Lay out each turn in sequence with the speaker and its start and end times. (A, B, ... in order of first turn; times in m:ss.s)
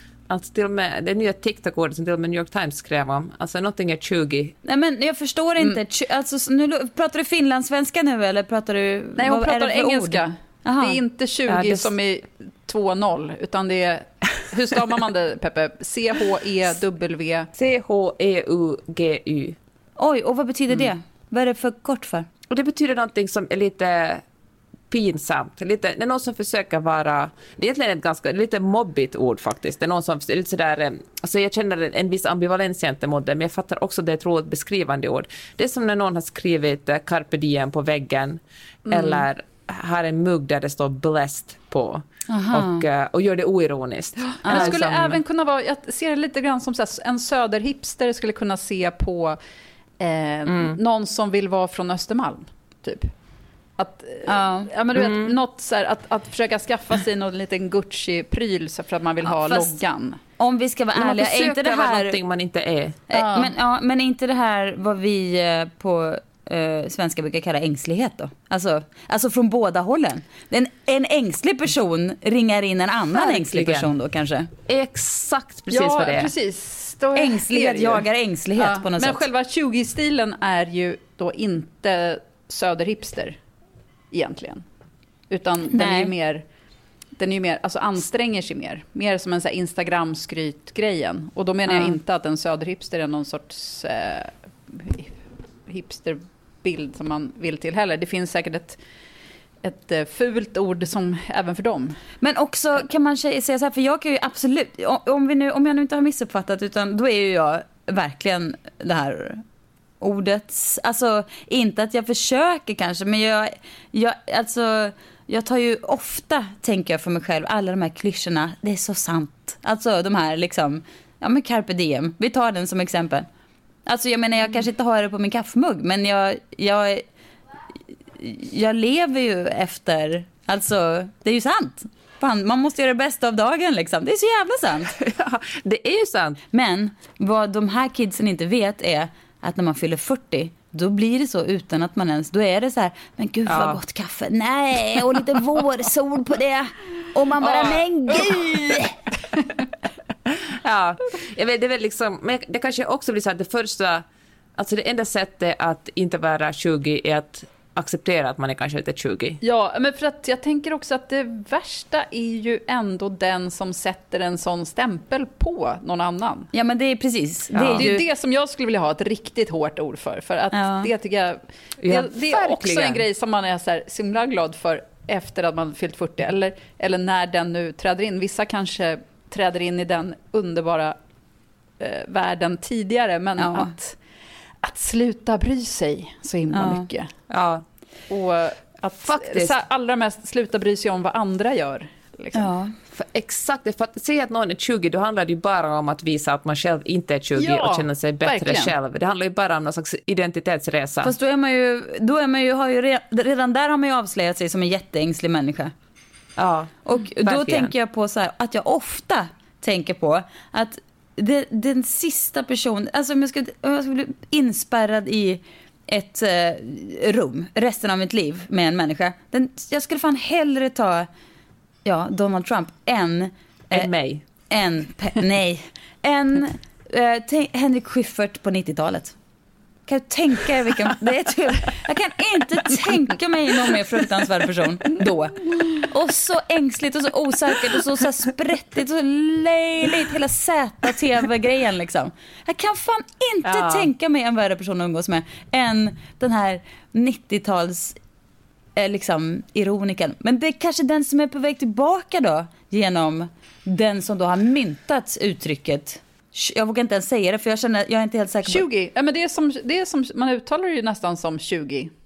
0:00.3-0:04.6 A
0:04.6-0:11.0 B
0:09.2-0:17.5 C
0:11.5-0:11.9 A
0:17.6-0:19.6 A
0:20.0-0:22.3 B
0:22.5-0:24.2 A
0:24.9-0:45.2 A
0:38.9-0:39.2 C
0:42.3-0:42.8 B
0:44.3-0:49.4 C
0:44.4-0:44.7 B
0:50.0-0:53.1 C
0:50.5-0:50.8 A
0:53.8-1:00.2 C
0:54.3-0:54.7 B
0:54.9-0:55.4 A
0:59.4-0:59.7 B
1:00.4-1:02.2 B
1:01.0-1:03.0 A
1:03.1-1:14.5 B
1:03.1-1:03.5 C
1:13.4-1:13.9 A
1:14.7-1:16.3 A
1:15.7-1:18.1 C
1:17.2-1:19.2 B
1:18.6-1:23.4 C
1:24.1-1:24.6 C
1:25.3-1:26.4 C
1:25.7-1:26.1 B
1:27.2-1:35.2 C
1:35.7-1:38.8 C
1:39.6-1:42.0 C
1:42.2-1:49.4 B
1:50.0-2:03.3 B
2:03.9-2:07.0 B
2:08.2-2:14.9 B
2:15.0-2:16.4 A
2:16.5-2:28.9 B
2:23.5-2:23.8 A
2:27.6-2:28.8 C
2:30.5-2:34.0 A
2:34.6-2:39.4 A
2:39.4-2:46.5 C
2:46.5-2:48.0 B
2:47.5-2:47.9 A
2:47.7-3:01.0 C
2:50.5-2:50.9 B
2:51.8-2:53.0 A
3:01.8-3:04.0 C
3:03.4-3:03.7 B
3:04.6-3:07.1 C
3:06.5-3:06.9 B
3:07.3-3:07.6 A
3:08.1-3:12.5 C
3:09.0-3:09.6 A
3:12.4-3:12.7 B
3:12.9-3:21.1 A
3:17.4-3:18.7 C
3:21.0-3:25.7 B
3:26.4-3:27.7 A
3:26.9-3:41.1 B
3:41.8-3:43.9 B
3:43.7-3:44.2 A
3:44.5-3:49.2 B
3:49.9-4:08.0 B
4:03.4-4:03.9 A
4:08.8-4:18.6 B
4:18.5-4:21.9 C